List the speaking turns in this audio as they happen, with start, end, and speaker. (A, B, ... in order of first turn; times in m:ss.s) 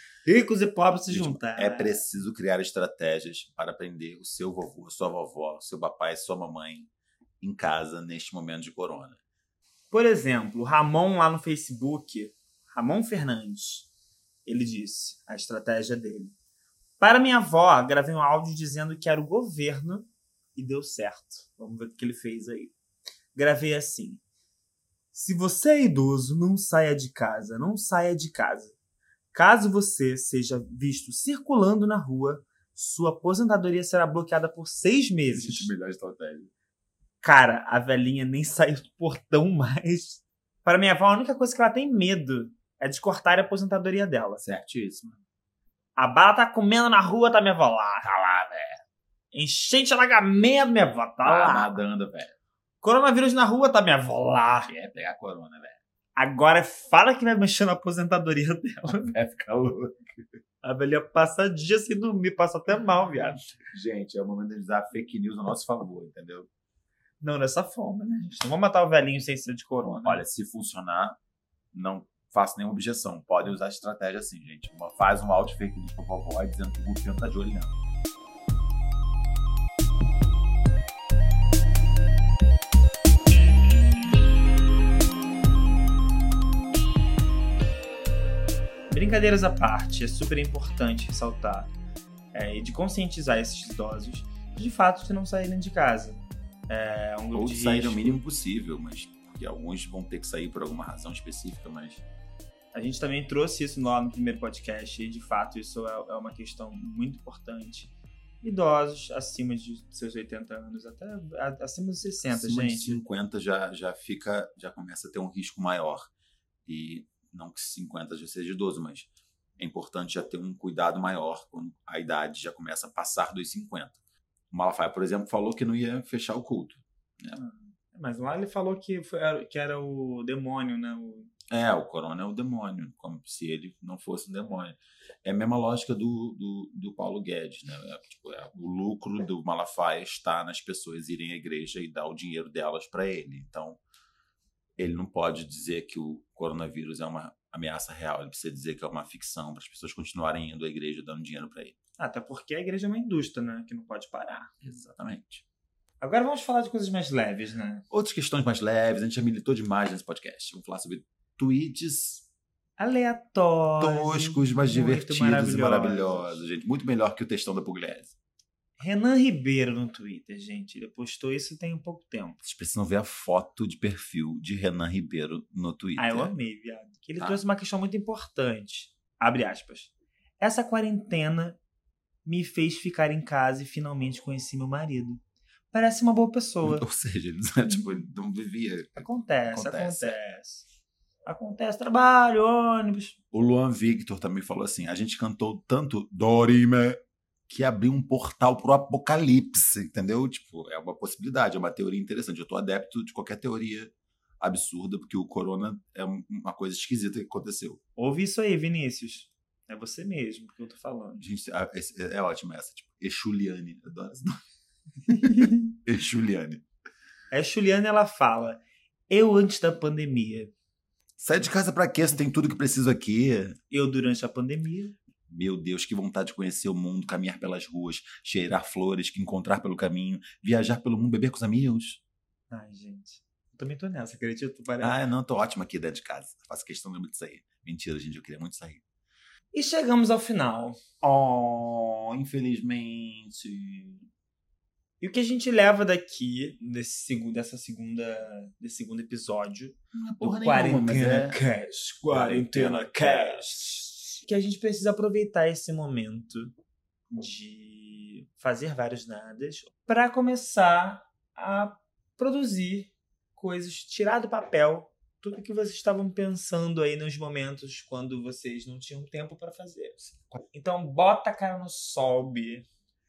0:00.2-0:02.0 A
0:01.1-0:06.9 B
0:07.4-0:09.2 B
0:09.9-0:13.9 A
0:14.4-0:16.3 A
0:17.0-0:22.7 A
0:23.3-0:24.2 A
0:25.1-0:28.7 A
0:29.3-0:35.7 A
0:35.3-0:36.5 B
0:37.2-0:44.4 A
0:44.4-0:45.2 B
0:46.0-0:48.1 A
0:48.0-0:48.8 B
0:49.3-0:51.8 A
0:51.2-0:52.3 B
0:52.8-0:54.7 A
0:54.7-0:55.8 B
0:56.2-0:59.2 A
0:59.1-1:00.2 B
1:00.6-1:03.4 A
1:03.6-1:06.5 B
1:07.2-1:10.2 A
1:10.0-1:11.2 B
1:11.7-1:17.7 B
1:28.9-1:31.7 A
1:32.3-1:38.2 A
1:37.3-1:42.0 B
1:42.7-1:53.0 A
1:52.3-1:56.1 B
1:56.6-2:04.0 B
2:04.5-2:07.4 B
2:07.3-2:11.3 A
2:11.5-2:23.8 B
2:24.8-2:31.8 B
2:32.0-2:34.5 A
2:34.6-2:35.4 B
2:36.0-2:37.8 A
2:37.9-2:42.2 B
2:42.8-2:46.4 A
2:43.8-2:48.1 B
2:48.8-2:52.4 A
2:52.4-2:56.3 B
2:56.0-3:01.6 A
3:02.2-3:05.2 A
3:05.7-3:06.8 A
3:06.6-3:10.2 B
3:09.0-3:10.6 A
3:11.2-3:13.2 A
3:13.3-3:27.8 B
3:28.0-3:31.2 A
3:31.2-3:34.4 B
3:35.1-3:35.7 A
3:35.8-3:36.6 B
3:37.3-3:40.5 A
3:41.2-3:43.6 B
3:43.7-3:45.0 A
3:45.3-3:52.0 B
3:52.5-3:55.0 A
3:54.8-3:58.8 B
3:59.5-4:00.8 A
4:01.0-4:04.1 B
4:05.0-4:16.5 A
4:09.9-4:11.4 B
4:12.1-4:13.6 B
4:17.1-4:30.0 A
4:30.0-4:30.4 B
4:30.5-4:32.7 A